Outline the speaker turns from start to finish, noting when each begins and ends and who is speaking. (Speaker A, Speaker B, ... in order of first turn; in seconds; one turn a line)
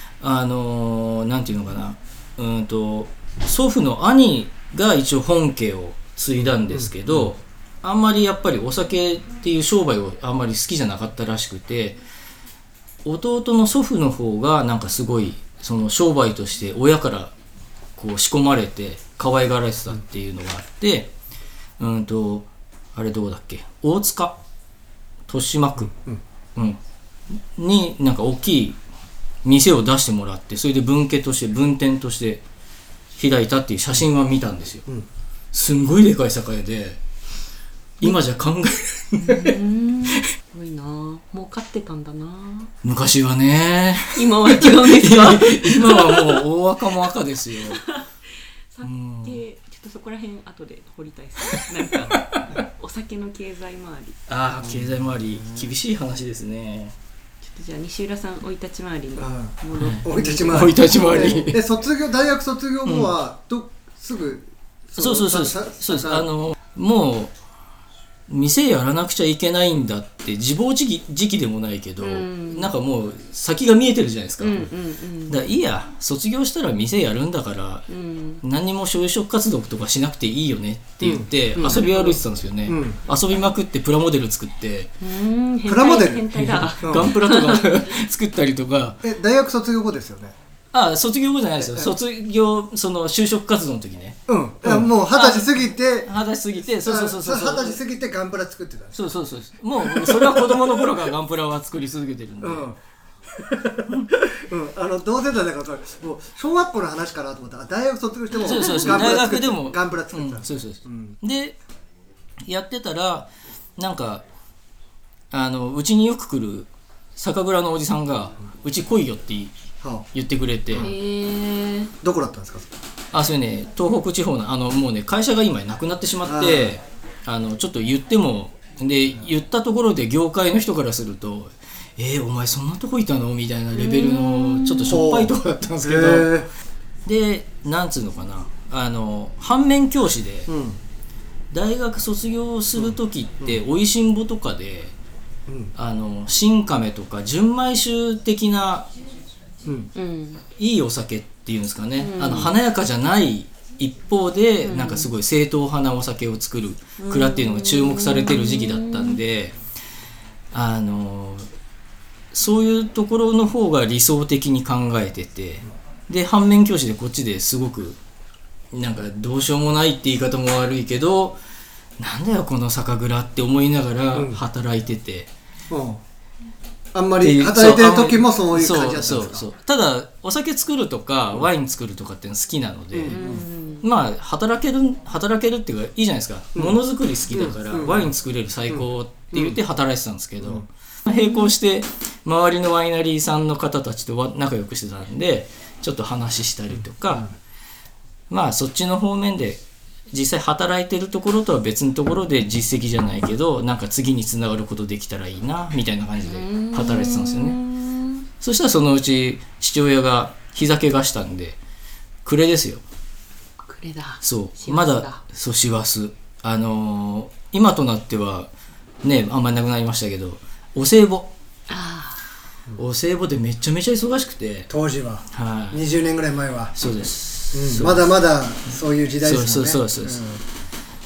Speaker A: 0.2-12.0
Speaker B: 6.7-7.3
Speaker A: 13.1-17.3
Speaker A: 18.0-21.1
Speaker A: 21.8-24.4
Speaker A: 25.3-25.9
Speaker B: 25.9-26.2
Speaker A: 27.6-28.8
Speaker A: 29.4-32.4
Speaker A: 33.2-34.9
Speaker A: 35.5-37.0
Speaker A: 38.0-39.6
Speaker C: 39.2-42.7
Speaker A: 42.8-47.8
Speaker C: 44.1-46.4
Speaker C: 47.6-48.1
Speaker C: 48.7-54.2
Speaker A: 48.8-49.4
Speaker A: 51.5-52.2
Speaker A: 54.3-56.9
Speaker C: 57.5-61.0
Speaker B: 59.2-66.3
Speaker A: 59.8-61.6
Speaker A: 62.9-63.1
Speaker A: 65.0-67.3
Speaker A: 68.3-74.7
Speaker C: 72.0-72.7
Speaker C: 74.4-75.4
Speaker A: 75.3-77.9
Speaker C: 77.9-78.4
Speaker A: 78.4-84.9
Speaker B: 81.0-81.9
Speaker C: 81.6-82.2
Speaker B: 82.7-83.0
Speaker C: 85.0-87.8
Speaker B: 85.7-86.3
Speaker A: 86.3-89.0
Speaker B: 86.8-87.1
Speaker B: 89.0-90.3
Speaker A: 90.7-97.8
Speaker B: 91.6-91.9
Speaker B: 94.3-96.1
Speaker B: 96.8-99.0
Speaker A: 98.9-102.7
Speaker B: 99.8-101.1
Speaker B: 102.4-102.8
Speaker B: 103.3-111.2
Speaker A: 108.4-111.6
Speaker A: 112.5-114.2
Speaker A: 115.3-119.5
Speaker B: 119.8-120.1
Speaker A: 120.1-120.9
Speaker C: 120.8-121.9
Speaker B: 122.0-122.7
Speaker A: 123.1-136.4
Speaker B: 126.2-126.8
Speaker C: 133.7-135.0
Speaker B: 134.9-136.5
Speaker A: 137.1-140.5
Speaker B: 140.5-140.8
Speaker A: 141.5-144.9
Speaker B: 142.8-143.6
Speaker A: 145.8-148.9
Speaker C: 149.9-150.4
Speaker A: 150.6-159.6
Speaker C: 152.0-152.6
Speaker C: 154.6-155.1
Speaker C: 157.0-159.2
Speaker A: 160.5-161.5
Speaker A: 162.3-168.0
Speaker A: 168.7-171.4
Speaker A: 172.0-175.3
Speaker B: 174.1-174.4
Speaker B: 175.7-176.0
Speaker B: 176.9-179.4
Speaker A: 177.2-183.2
Speaker B: 182.9-183.4
Speaker C: 183.1-183.8
Speaker A: 183.8-197.3
Speaker B: 187.3-188.1
Speaker B: 188.7-189.6
Speaker C: 191.1-191.5
Speaker A: 198.3-207.6
Speaker C: 206.3-208.3
Speaker A: 208.4-211.6
Speaker A: 212.2-212.8
Speaker C: 213.6-215.2
Speaker A: 214.2-218.5
Speaker A: 219.0-221.3
Speaker C: 221.7-222.2
Speaker A: 222.8-224.7
Speaker B: 224.7-226.7
Speaker A: 225.3-225.8
Speaker A: 226.8-228.1
Speaker B: 227.5-230.4
Speaker A: 229.2-230.2